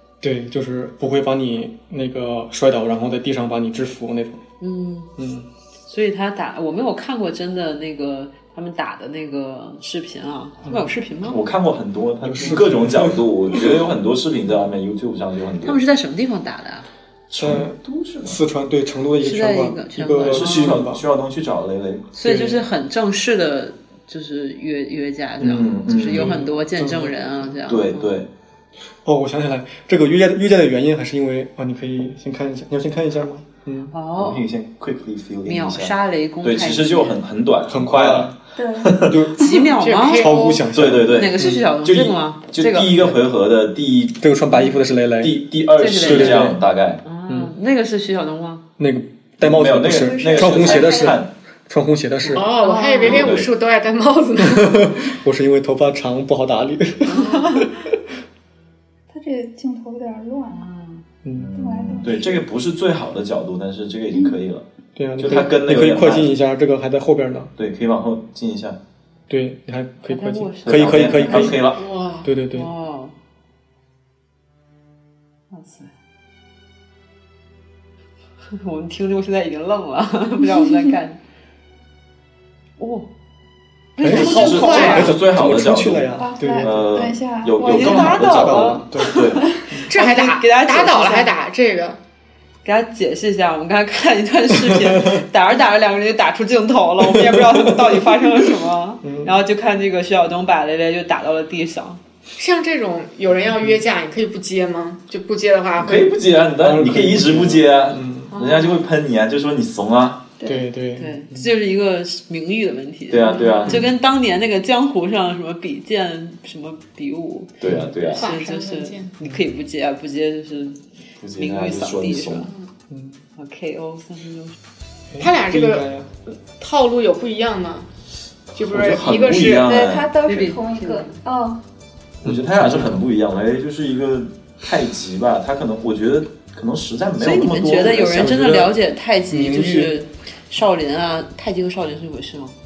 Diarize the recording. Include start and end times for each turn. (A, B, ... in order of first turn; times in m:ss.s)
0:00.2-0:04.4 A
0:04.6-0:05.1 B
0:05.2-0:05.5 A
0:05.8-0:11.4 B
0:11.2-0:15.8 C
0:12.2-0:13.3 A
0:15.6-0:16.9 B
0:17.3-0:18.4 C
0:17.4-0:21.0 A
0:19.2-0:20.8 B
0:20.2-0:22.1 C
0:22.1-0:28.2 B
0:22.2-0:22.6 A
0:25.4-0:26.4 C
0:26.0-0:27.2 A
0:27.7-0:28.3 C
0:29.0-0:33.9 A
0:33.9-0:34.4 B
0:34.2-0:39.2 C
0:35.4-0:37.2 B
0:37.6-0:38.4 A
0:38.6-0:39.0 D
0:39.0-0:39.4 A
0:39.4-0:40.6 E
0:39.4-0:43.0 B
0:40.1-0:41.6 A
0:40.7-0:47.0 C
0:44.2-0:45.4 A
0:45.8-0:48.6 B
0:46.0-0:46.6 A
0:48.8-0:52.5 A
0:49.4-0:51.3 C
0:49.9-0:51.2 D
0:52.3-0:55.0 E
0:52.5-0:53.3 D
0:53.0-0:53.5 C
0:54.4-0:57.2 A
0:57.0-0:57.7 E
0:57.1-0:57.6 B
0:59.1-1:00.6 D
1:00.5-1:01.0 B
1:01.2-1:02.1 A
1:01.3-1:04.6 C
1:01.5-1:02.4 D
1:05.0-1:07.5 A
1:05.2-1:06.4 C
1:07.6-1:08.8 C
1:09.3-1:11.6 A
1:10.0-1:11.6 B
1:10.6-1:11.8 C
1:11.7-1:12.3 E
1:12.2-1:12.7 A
1:12.5-1:13.1 B
1:15.5-1:15.9 B
1:18.5-1:21.2 B
1:22.8-1:23.1 B
1:24.0-1:25.1 B
1:24.0-1:26.9 A
1:24.1-1:29.5 C
1:24.2-1:25.1 E
1:26.2-1:28.2 D
1:27.6-1:31.3 B
1:27.6-1:29.9 A
1:29.8-1:32.0 E
1:32.6-1:42.0 B
1:34.6-1:35.2 A
1:37.1-1:37.9 A
1:39.0-1:39.3 A
1:42.4-1:46.1 E
1:45.8-1:50.2 C
1:46.6-1:48.3 A
1:48.3-1:48.8 E
1:50.4-1:50.7 D
1:50.4-1:51.5 A
1:51.0-2:00.8 B
1:53.1-1:53.9 C
1:57.6-1:58.3 C
1:58.2-1:59.1 E
2:01.2-2:02.5 C
2:01.3-2:02.5 B
2:02.9-2:03.2 A
2:03.4-2:04.6 B
2:05.1-2:06.1 A
2:05.2-2:07.9 E
2:08.5-2:09.8 E
2:08.6-2:10.1 C
2:09.6-2:11.6 D
2:10.2-2:11.2 B
2:12.2-2:18.6 C
2:12.2-2:13.0 A
2:17.2-2:22.5 B
2:18.0-2:18.7 A
2:19.3-2:19.9 A